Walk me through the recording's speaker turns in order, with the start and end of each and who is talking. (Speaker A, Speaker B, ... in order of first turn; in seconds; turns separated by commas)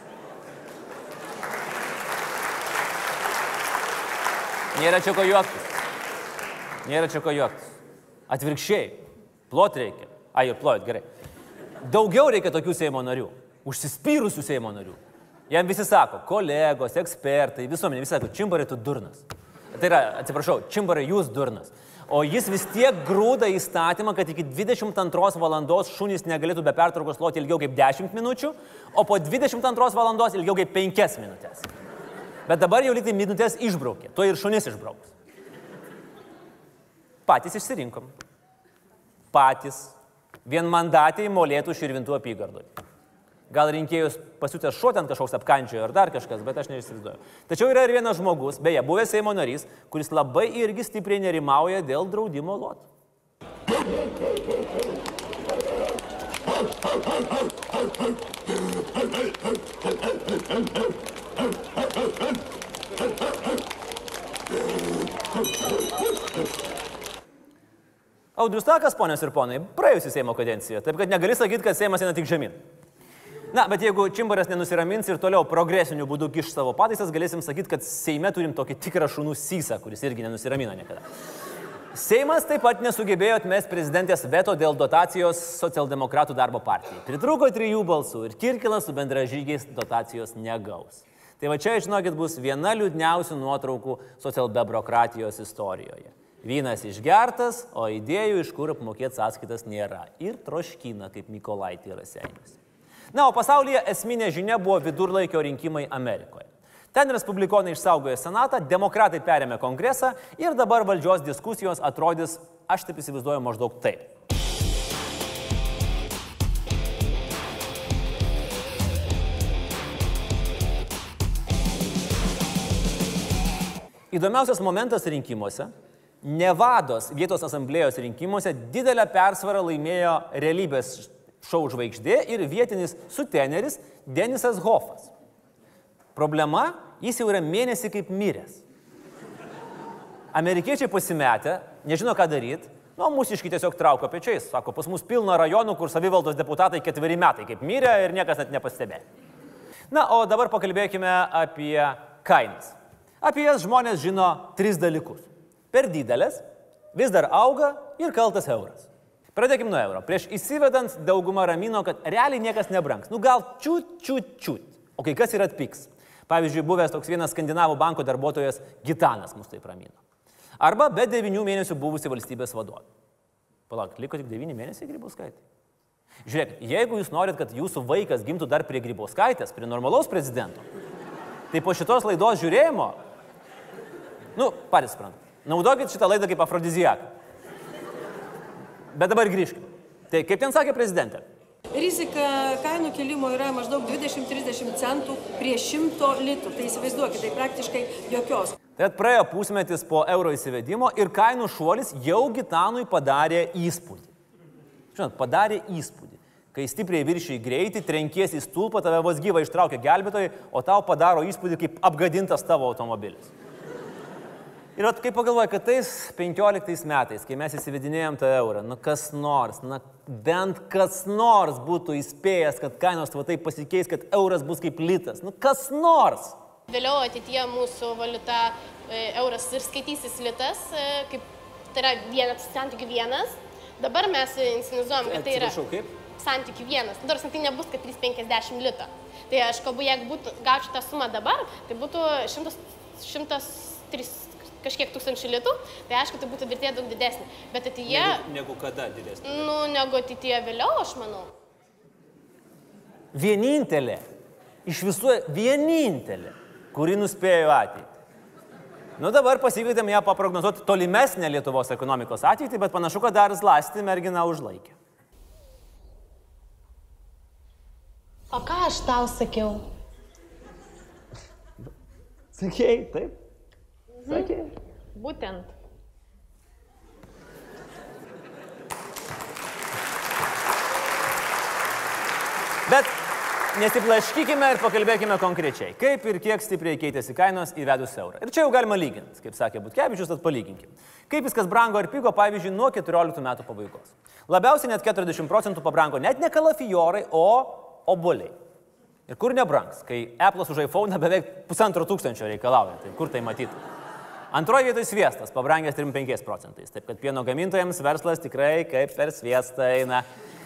Speaker A: 4.8-5.7, Speaker A: 6.8-7.8, Speaker A: 8.3-11.1, Speaker A: 11.8-15.0, Speaker A: 15.5-31.7, Speaker A: 32.5-35.1, Speaker A: 37.2-38.1, Speaker A: 39.3-42.7, Speaker A: 43.5-52.8, Speaker A: 68.4-72.6, Speaker A: 73.5-81.0, Speaker A: 81.9-102.6, Speaker A: 103.1-114.1, Speaker A: 124.1-125.7, Speaker A: 126.2-135.1, Speaker A: 136.1-138.6, Speaker A: 140.3-149.0, Speaker A: 149.9-156.4, Speaker A: 156.9-170.0, Speaker A: 170.6-172.8, Speaker A: 173.7-175.4, Speaker A: 176.2-180.6, Speaker A: 181.5-183.0, Speaker A: 184.4-187.1, Speaker A: 188.9-191.2, Speaker B: 191.7-198.5, Speaker A: 198.8-204.1, Speaker A: 204.9-213.3, Speaker A: 214.8-226.4, Speaker C: 226.7-235.6, Speaker A: 235.0-235.9, Speaker C: 236.2-248.2, Speaker A: 247.9-249.5, Speaker C: 249.2-251.3, Speaker A: 253.1-254.0, Speaker A: 254.7-257.9, Speaker A: 259.0-264.8, Speaker C: 268.3-269.6, Speaker A: 272.4-273.1, Speaker C: 274.0-274.3, Speaker A: 274.1-274.5, Speaker C: 274.9-275.5, Speaker A: 282.7-282.9, Speaker A: 283.5-298.4, Speaker A: 299.1-303.6, Speaker A: 304.3-310.1